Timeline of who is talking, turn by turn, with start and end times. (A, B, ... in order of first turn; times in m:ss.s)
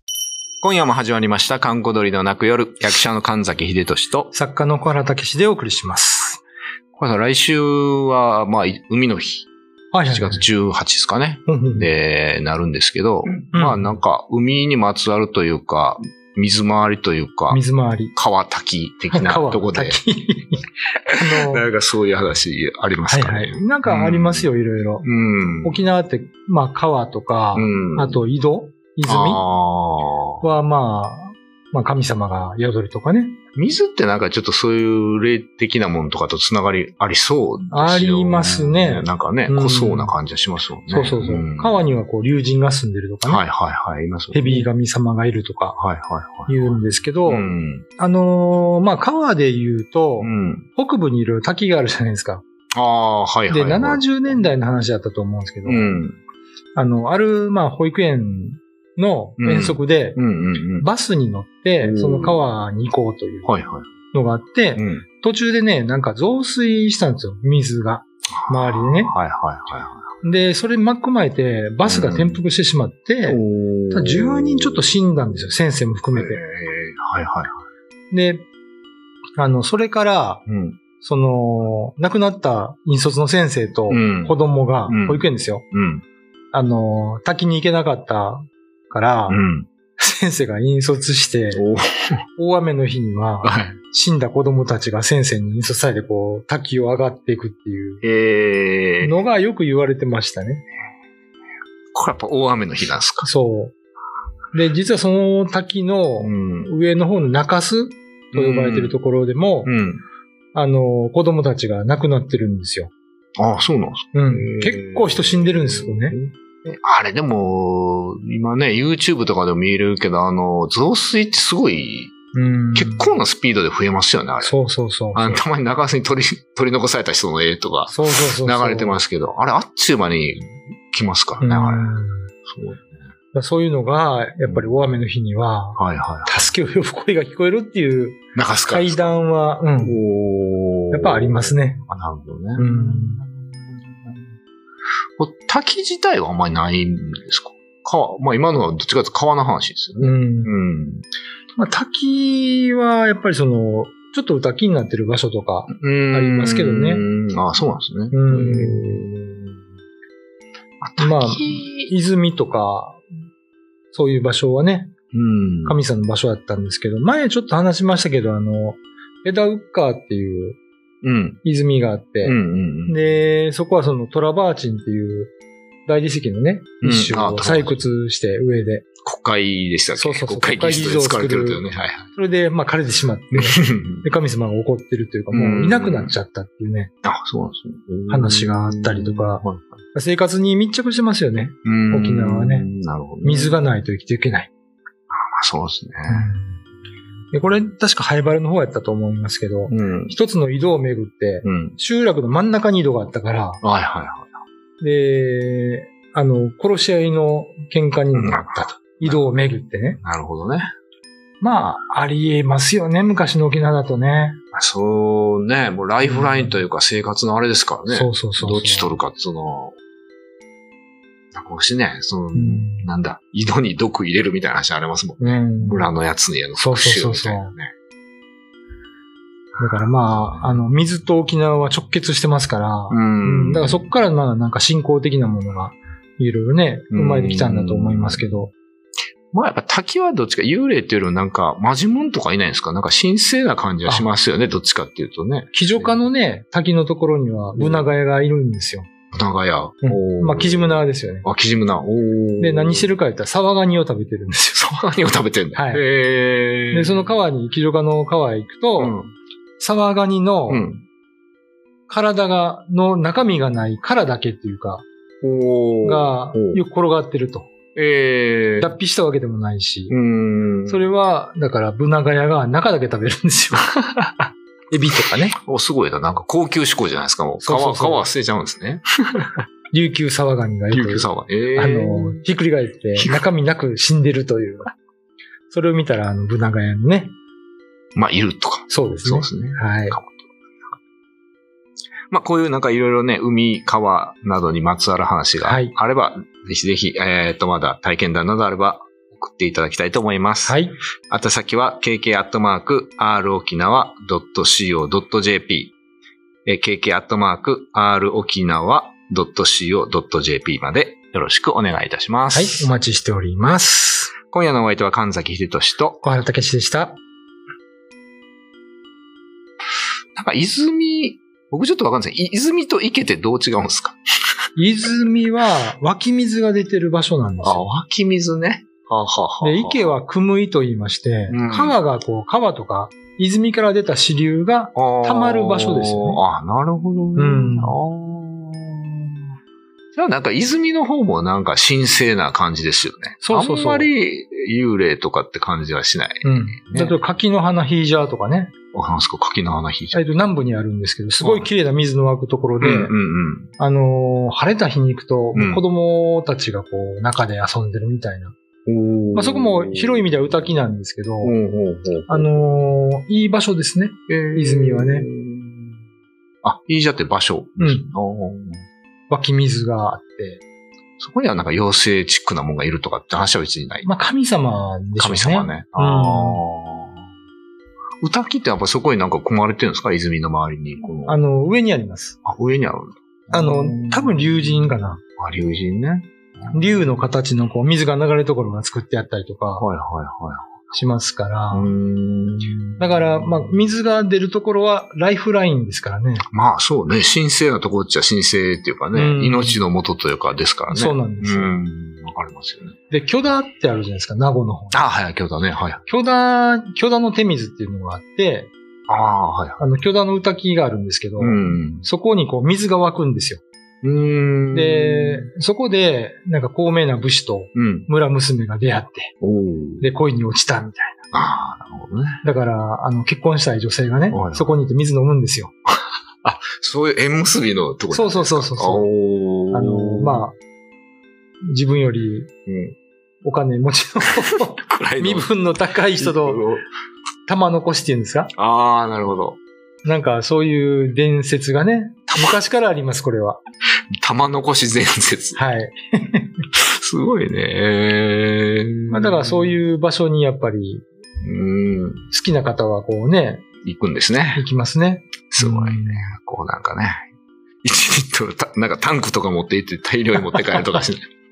0:00.6-0:04.3 A
0:04.3-0:06.4 B
0:06.9-0:09.5 A
0:09.9-0:10.4 B
0:10.1-0:17.6 A
0:11.5-0:11.9 B
0:13.5-0:14.0 B
0:17.5-0:18.1 B
0:18.1-0:20.0 A
0:19.1-0:21.7 B
0:21.1-0:24.5 A
0:23.1-0:25.0 B
0:25.0-0:25.8 A
0:25.6-0:29.4 B
0:27.5-0:28.2 A
0:29.1-0:30.5 A
0:30.4-0:33.4 B
0:33.6-0:41.8 A
0:37.7-0:40.2 B
0:40.9-0:43.5 B
0:43.2-0:44.7 A
0:44.3-0:45.8 B
0:45.8-0:47.9 A
0:46.5-0:52.4 B
0:50.2-0:50.7 A
0:52.7-0:54.4 A
0:53.5-0:56.0 B
0:55.6-0:56.2 A
0:56.8-1:00.2 B
0:59.4-1:00.9 A
1:00.8-1:03.5 B
1:01.8-1:02.4 A
1:03.4-1:03.9 A
1:04.1-1:09.2 B
1:04.8-1:05.0 A
1:08.4-1:10.1 A
1:10.2-1:16.4 B
1:11.8-1:12.4 A
1:13.2-1:15.0 A
1:16.1-1:17.5 A
1:18.1-1:18.5 B
1:19.4-1:20.4 B
1:20.5-1:20.8 A
1:21.0-1:25.7 B
1:23.9-1:24.4 A
1:24.9-1:26.0 A
1:26.5-1:29.4 B
1:29.3-1:29.7 A
1:30.0-1:31.6 B
1:31.5-1:32.2 A
1:32.4-1:38.0 B
1:33.4-1:33.8 A
1:38.0-1:39.2 A
1:39.0-1:40.7 B
1:41.9-1:43.3 A
1:43.2-1:43.7 B
1:44.5-1:49.7 B
1:46.2-1:46.7 A
1:48.3-1:49.0 A
1:49.6-1:50.0 A
1:50.5-1:52.9 B
1:53.4-2:02.1 A
1:54.1-1:56.2 B
2:02.3-2:03.2 B
2:02.8-2:04.6 A
2:04.4-2:05.4 B
2:05.1-2:13.0 A
2:07.9-2:09.0 B
2:11.4-2:12.3 B
2:13.3-2:20.0 B
2:14.5-2:14.8 A
2:15.8-2:16.4 A
2:18.4-2:19.2 A
2:19.8-2:24.2 A
2:20.9-2:21.8 B
2:22.6-2:23.2 B
2:25.2-2:31.1 A
2:30.0-2:30.6 B
2:31.6-2:37.1 B
2:35.7-2:39.6 A
2:38.1-2:39.0 B
2:40.8-2:41.9 A
2:41.0-2:43.0 B
2:43.9-2:44.9 B
2:45.1-2:45.8 A
2:45.6-2:50.6 B
2:51.0-2:51.4 A
2:51.4-2:55.3 B
2:52.2-2:53.0 A
2:55.9-2:58.9 B
2:56.8-2:57.8 A
2:59.0-3:02.1 A
3:00.0-3:01.6 B
3:02.1-3:06.9 B
3:03.3-3:04.1 A
3:05.3-3:06.2 A
3:07.0-3:09.8 A
3:08.1-3:12.7 B
3:11.6-3:13.6 A
3:13.2-3:14.5 B
3:15.1-3:16.3 A
3:16.1-3:16.6 B
3:17.3-3:23.6 B
3:19.7-3:20.2 A
3:21.4-3:21.8 A
3:23.6-3:24.3 A
3:24.8-3:30.0 B
3:28.1-3:29.3 A
3:30.0-3:30.7 A
3:31.4-3:34.4 B
3:34.5-3:39.8 A
3:36.0-3:36.6 B
3:37.9-3:39.0 B
3:41.3-3:47.7 A
3:42.3-3:42.9 B
3:45.2-3:45.9 B
3:46.6-3:47.5 B
3:49.6-3:58.5 B
3:49.6-3:50.6 A
3:52.9-3:53.9 A
3:56.9-3:58.5 A
3:59.3-4:06.0 A
4:05.5-4:08.9 B
4:07.6-4:07.9 A
4:09.1-4:12.9 A
4:09.8-4:11.3 B
4:12.4-4:14.7 B
4:14.6-4:17.2 A
4:15.6-4:15.8 B
4:16.7-4:19.0 B
4:18.8-4:19.1 A
4:19.6-4:20.7 B
4:20.5-4:20.8 A
4:21.9-4:24.8 B
4:25.2-4:26.6 A
4:25.8-4:27.5 B
4:27.8-4:28.7 A
4:28.6-4:30.0 B
4:29.9-4:30.9 A
4:30.7-4:35.4 B
4:35.4-4:39.3 A
4:37.4-4:38.1 B
4:39.7-4:44.7 B
4:40.7-4:42.2 A
4:43.0-4:43.3 A
4:45.5-4:47.2 B
4:48.0-4:50.3 A
4:48.7-4:50.0 B
4:52.1-5:05.7 A
4:55.4-4:55.7 B
5:00.5-5:00.8 B
5:06.5-5:12.7 A
5:12.3-5:14.2 B
5:14.3-5:16.0 A
5:16.0-5:17.0 B
5:20.2-5:24.0 A
5:24.6-5:27.6 B
5:27.4-5:30.0 A
5:29.4-5:36.2 B
5:31.3-5:31.8 A
5:34.8-5:39.2 A
5:37.2-5:37.8 B
5:40.0-5:47.0 A
5:43.2-5:43.9 B
5:46.2-5:48.5 B
5:48.7-5:50.2 A
5:49.9-5:53.0 B
5:51.2-5:51.5 A
5:52.6-5:53.5 A
5:53.6-5:58.4 B
5:55.4-5:55.6 A
5:58.7-6:00.3 A
5:59.1-6:01.4 B
6:01.2-6:02.3 A
6:02.1-6:05.1 B
6:04.1-6:05.8 A
6:06.4-6:08.6 A
6:07.6-6:07.9 B
6:09.1-6:10.4 B
6:11.0-6:13.9 A
6:13.8-6:16.4 B
6:15.0-6:17.0 A
6:18.0-6:21.2 A
6:21.1-6:22.2 B
6:22.2-6:26.9 A
6:23.3-6:25.0 B
6:26.5-6:29.7 B
6:29.6-6:30.6 A
6:30.7-6:31.8 B
6:31.5-6:33.7 A
6:32.8-6:36.3 B
6:36.3-6:42.8 A
6:38.9-6:39.6 B
6:40.7-6:41.6 B
6:42.9-6:44.8 B
6:44.7-6:45.8 A
6:45.9-6:48.5 B
6:48.9-6:49.6 A
6:49.6-6:53.4 B
6:51.2-6:51.8 A
6:53.8-6:55.3 A
6:54.5-6:59.1 B
6:57.6-6:57.9 A
6:59.2-6:59.9 A
6:59.8-7:01.0 B
7:01.1-7:02.2 A
7:02.2-7:05.6 B
7:04.1-7:04.5 A
7:06.2-7:10.3 A
7:07.9-7:08.9 B
7:09.5-7:10.4 B
7:11.4-7:12.3 B
7:12.5-7:12.8 A
7:13.2-7:16.5 B
7:14.0-7:15.3 A
7:16.0-7:16.6 A
7:17.3-7:18.3 B
7:18.4-7:19.4 A
7:19.8-7:23.4 B
7:22.1-7:22.4 A
7:24.0-7:25.4 A
7:25.4-7:26.3 B
7:26.6-7:29.6 A
7:28.9-7:30.9 B
7:31.2-7:32.1 A
7:32.1-7:33.5 B
7:33.6-7:34.4 A
7:34.3-7:36.1 B
7:35.3-7:37.1 A
7:37.6-7:41.1 A